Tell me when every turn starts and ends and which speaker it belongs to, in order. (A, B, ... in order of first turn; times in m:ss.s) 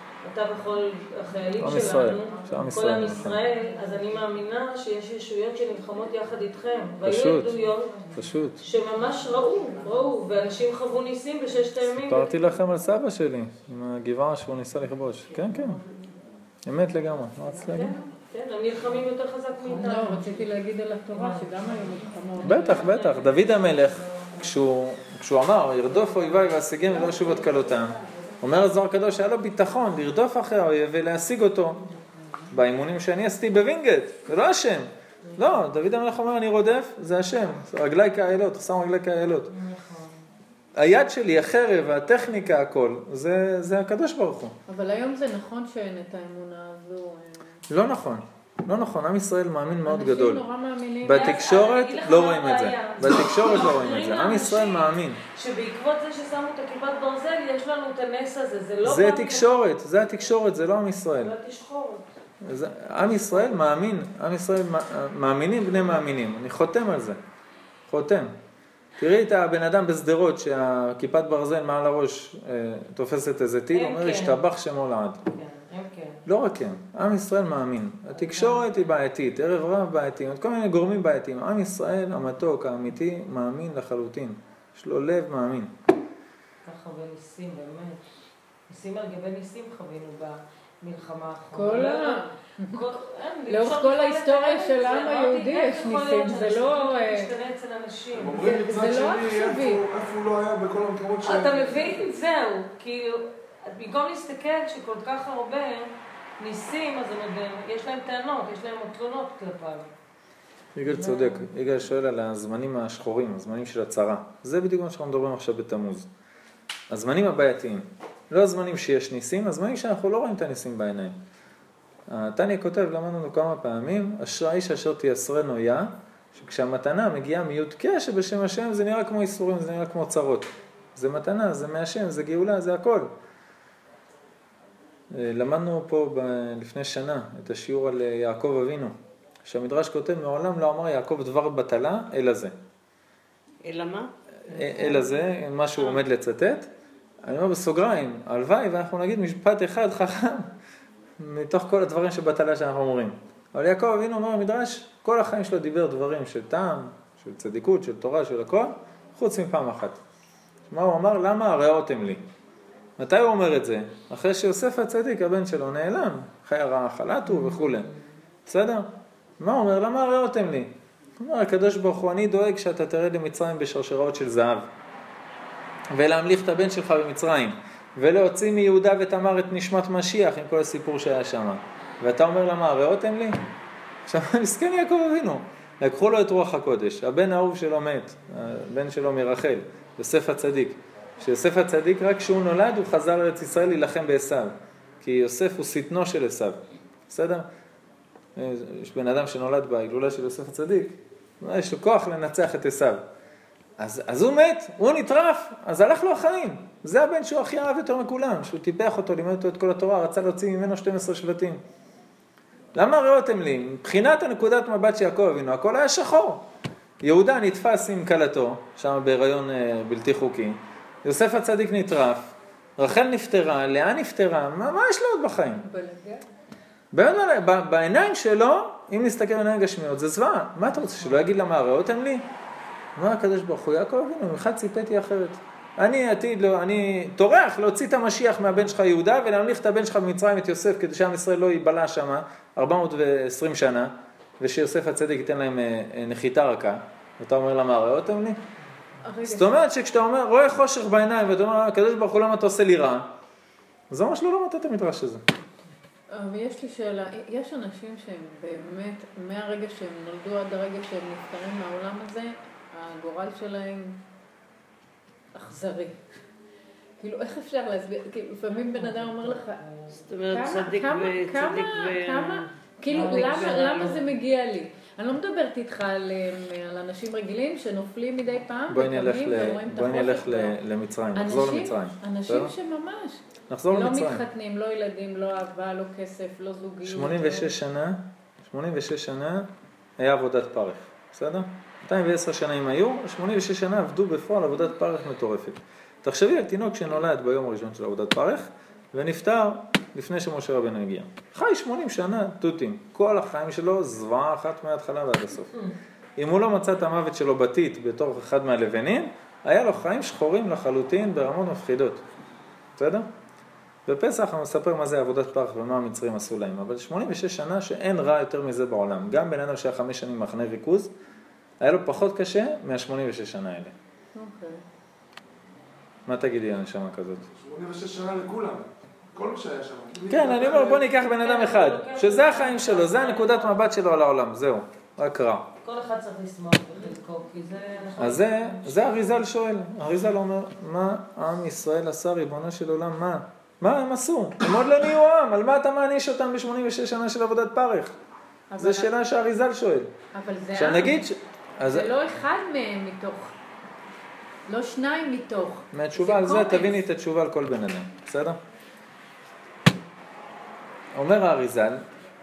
0:00.2-0:12.3 A
0:01.6-0:03.4 B
0:07.0-0:07.6 B
0:08.1-0:08.6 B
0:12.0-0:15.8 B
0:16.6-0:17.9 B
0:17.7-0:20.5 A
0:19.7-0:23.0 C
0:21.1-0:21.8 A
0:22.4-0:24.3 A
0:22.4-0:31.8 B
0:26.1-0:27.5 A
0:32.5-0:39.5 B
0:39.5-0:40.2 A
0:40.8-0:44.6 B
0:44.7-0:47.5 C
0:47.7-0:50.4 B
0:49.8-0:51.4 C
0:51.0-0:55.2 B
0:51.2-0:59.6 A
0:58.8-1:01.3 B
1:01.2-1:02.0 A
1:02.4-1:07.2 B
1:07.9-1:08.3 B
1:09.0-1:15.2 B
1:13.7-1:14.4 A
1:15.3-1:16.2 A
1:16.3-1:25.7 B
1:18.1-1:18.9 A
1:26.6-1:28.0 A
1:28.7-1:38.4 A
1:31.5-1:32.8 C
1:33.5-1:37.3 C
1:38.1-1:42.0 D
1:38.3-1:39.8 C
1:41.2-1:49.9 A
1:50.8-1:56.1 B
1:50.9-1:51.4 A
1:56.9-2:01.2 B
2:02.1-2:13.1 B
2:15.1-2:22.5 B
2:23.6-2:24.1 E
2:24.5-2:26.7 B
2:27.2-2:30.5 B
2:31.2-2:40.0 B
2:40.7-2:42.2 B
2:43.0-2:47.9 B
2:47.3-2:47.9 A
2:48.5-2:48.9 B
2:49.4-2:54.7 B
2:55.9-3:03.4 B
3:04.1-3:17.5 B
3:18.4-3:23.0 B
3:23.8-3:31.6 B
3:32.8-3:36.4 B
3:37.0-3:45.6 B
3:45.6-3:46.2 C
3:46.9-3:52.2 B
3:53.0-4:08.4 B
4:09.0-4:09.6 C
4:09.2-4:13.1 B
4:13.9-4:15.2 B
4:16.1-4:24.0 C
4:25.3-4:26.0 C
4:27.0-4:29.6 C
4:28.7-4:29.4 A
4:29.9-4:34.0 E
4:30.3-4:40.6 C
4:32.9-4:33.7 A
4:38.7-4:42.5 B
4:41.2-4:47.6 C
4:43.5-4:44.2 B
4:46.8-5:05.6 B
5:06.2-5:12.0 B
5:12.8-5:13.1 B
5:13.9-5:20.9 B
5:21.6-5:23.7 B
5:24.2-5:24.6 C
5:26.1-5:27.3 B
5:27.4-5:30.8 D
5:30.1-5:35.5 B
5:30.6-5:33.7 A
5:35.6-5:38.9 A
5:38.0-5:48.0 B
5:48.5-5:48.9 C
5:48.6-5:49.9 B
5:50.1-5:51.0 C
5:50.5-5:51.9 B
5:51.6-5:53.3 C
5:54.5-5:56.8 C
5:55.7-5:58.4 B
6:00.9-6:01.8 B